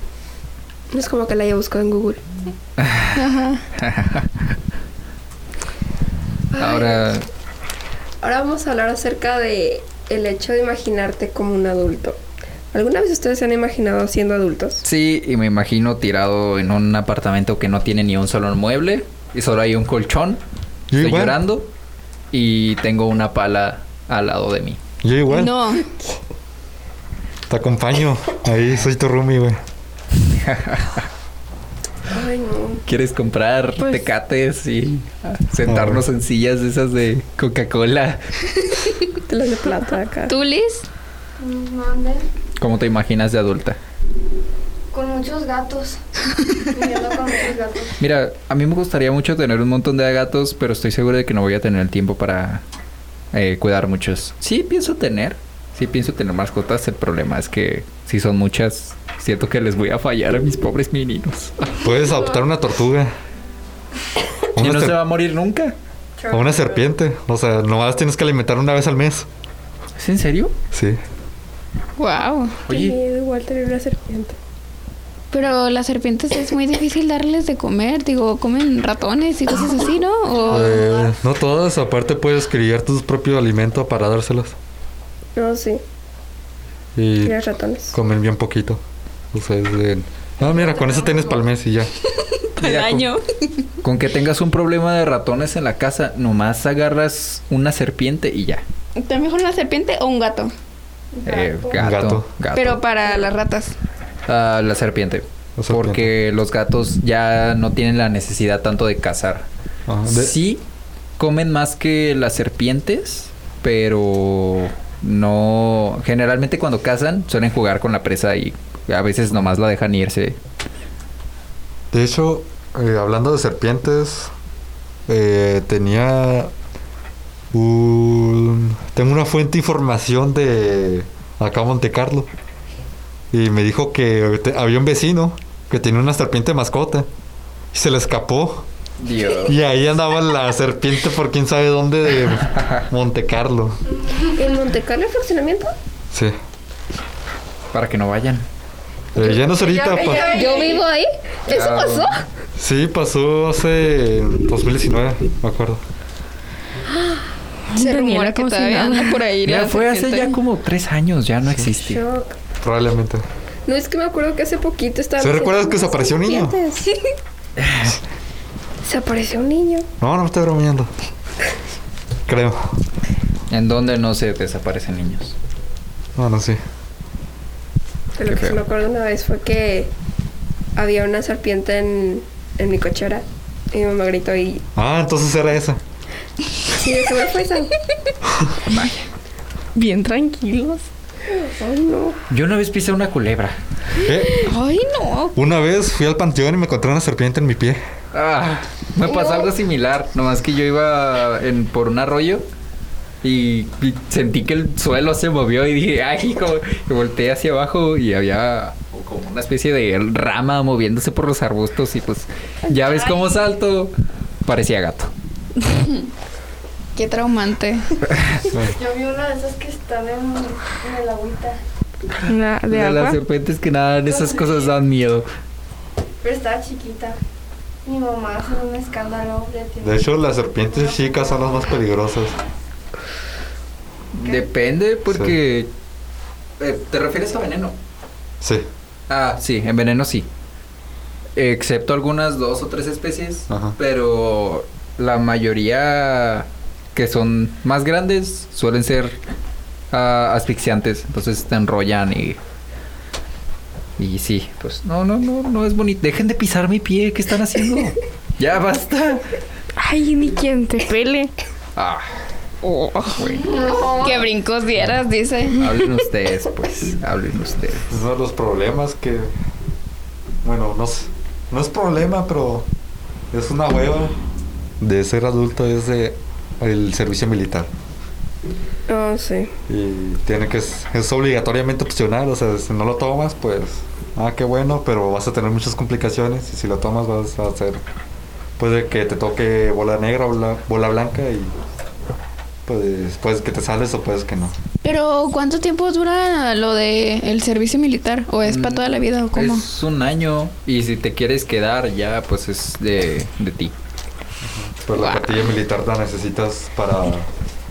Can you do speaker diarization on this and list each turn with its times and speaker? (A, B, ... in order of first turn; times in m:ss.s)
0:00.9-0:02.2 A
0:02.8-0:03.2 B
0:03.1-0:03.6 C
0:03.8-0:04.3 B
0:06.5-0:07.1 A
0:06.6-0:07.2 B
0:08.2-0:12.2 A
0:12.7-0:14.8 A
0:14.8-0:20.4 B
0:20.9-0:21.4 D
0:21.0-0:21.7 B
0:22.3-0:24.8 B
0:25.0-0:25.6 D
0:25.3-0:25.9 C
0:27.5-0:29.6 D
0:30.3-0:31.1 B
0:32.1-0:32.8 A
0:32.8-0:38.3 B
0:35.6-0:36.0 D
0:39.3-0:40.3 A
0:40.3-0:40.8 C
0:41.4-0:42.2 E
0:42.6-0:43.8 B
0:44.9-0:46.0 E
0:46.7-0:48.0 E
0:48.0-0:52.6 B
0:53.3-1:01.7 B
1:01.8-1:03.1 D
1:04.6-1:05.0 D
1:04.6-1:05.7 B
1:06.2-1:06.8 E
1:06.3-1:09.3 D
1:10.0-1:10.5 B
1:10.7-1:11.0 D
1:12.0-1:12.6 C
1:12.6-1:13.0 B
1:12.7-1:14.3 A
1:15.3-1:20.8 C
1:20.3-1:21.1 E
1:20.5-1:24.6 D
1:25.4-1:25.8 A
1:27.0-1:27.4 D
1:27.2-1:28.0 A
1:27.9-1:31.9 D
1:30.4-1:31.4 E
1:32.6-1:33.2 C
1:32.6-1:33.1 B
1:33.8-1:38.6 B
1:39.0-1:40.5 C
1:41.1-1:41.8 E
1:41.2-1:42.8 B
1:41.8-1:42.3 D
1:42.5-1:43.7 C
1:44.3-1:49.5 B
1:45.6-1:46.1 D
1:49.9-1:50.4 D
1:50.0-1:50.6 B
1:51.2-2:00.4 B
2:01.9-2:04.3 D
2:05.1-2:06.5 D
2:07.5-2:12.3 D
2:13.3-2:17.1 D
2:17.7-2:18.6 D
2:19.0-2:19.6 B
2:19.4-2:23.8 D
2:22.3-2:22.9 B
2:24.3-2:25.7 A
2:26.1-2:26.4 D
2:27.7-2:28.4 B
2:29.1-2:30.4 D
2:29.4-2:30.9 E
2:30.1-2:32.2 A
2:31.5-2:32.1 B
2:32.6-2:35.8 D
2:36.9-2:37.2 A
2:37.7-2:39.2 F
2:37.7-2:40.4 C
2:39.4-2:42.0 B
2:41.7-2:42.3 A
2:42.6-2:43.2 D
2:43.6-2:46.9 A
2:45.2-2:46.6 D
2:47.6-2:48.0 B
2:48.8-2:49.8 A
2:50.0-2:50.9 D
2:52.3-2:52.8 D
2:53.5-2:55.3 B
2:56.2-2:56.6 D
2:58.2-2:59.9 A
2:58.2-2:58.6 B
3:00.8-3:04.6 A
3:04.7-3:05.8 D
3:06.7-3:07.7 A
3:08.2-3:08.5 D
3:08.7-3:08.9 B
3:09.7-3:10.8 F
3:11.3-3:12.2 A
3:12.3-3:13.6 B
3:14.0-3:14.5 D
3:14.2-3:15.4 C
3:15.4-3:17.8 D
3:18.1-3:22.4 B
3:19.0-3:19.5 A
3:23.2-3:33.9 B
3:34.4-3:35.1 B
3:35.6-3:36.1 C
3:37.0-3:38.0 C
3:38.5-3:38.8 D
3:38.6-3:41.6 E
3:42.2-3:45.3 B
3:42.3-3:43.2 F
3:44.0-3:44.7 E
3:46.2-3:47.2 E
3:47.8-3:51.6 E
3:49.8-3:52.4 D
3:54.1-3:55.7 B
3:56.6-3:57.8 B
3:58.4-3:58.7 D
3:59.1-4:00.3 B
4:01.4-4:09.2 B
4:03.5-4:03.8 D
4:09.9-4:12.4 B
4:14.0-4:19.3 B
4:19.8-4:21.3 F
4:21.8-4:22.1 B
4:22.6-4:25.8 C
4:23.1-4:23.5 B
4:23.5-4:24.3 E
4:25.6-4:27.9 B
4:27.9-4:29.3 D
4:30.4-4:32.7 D
4:33.3-4:34.1 D
4:34.8-4:37.7 D
4:38.9-4:39.5 A
4:39.7-4:47.8 D
4:48.6-4:51.5 D
4:52.6-4:54.6 D
4:54.8-4:59.6 C
4:58.4-5:03.7 B
5:04.4-5:07.3 D
5:05.0-5:05.3 C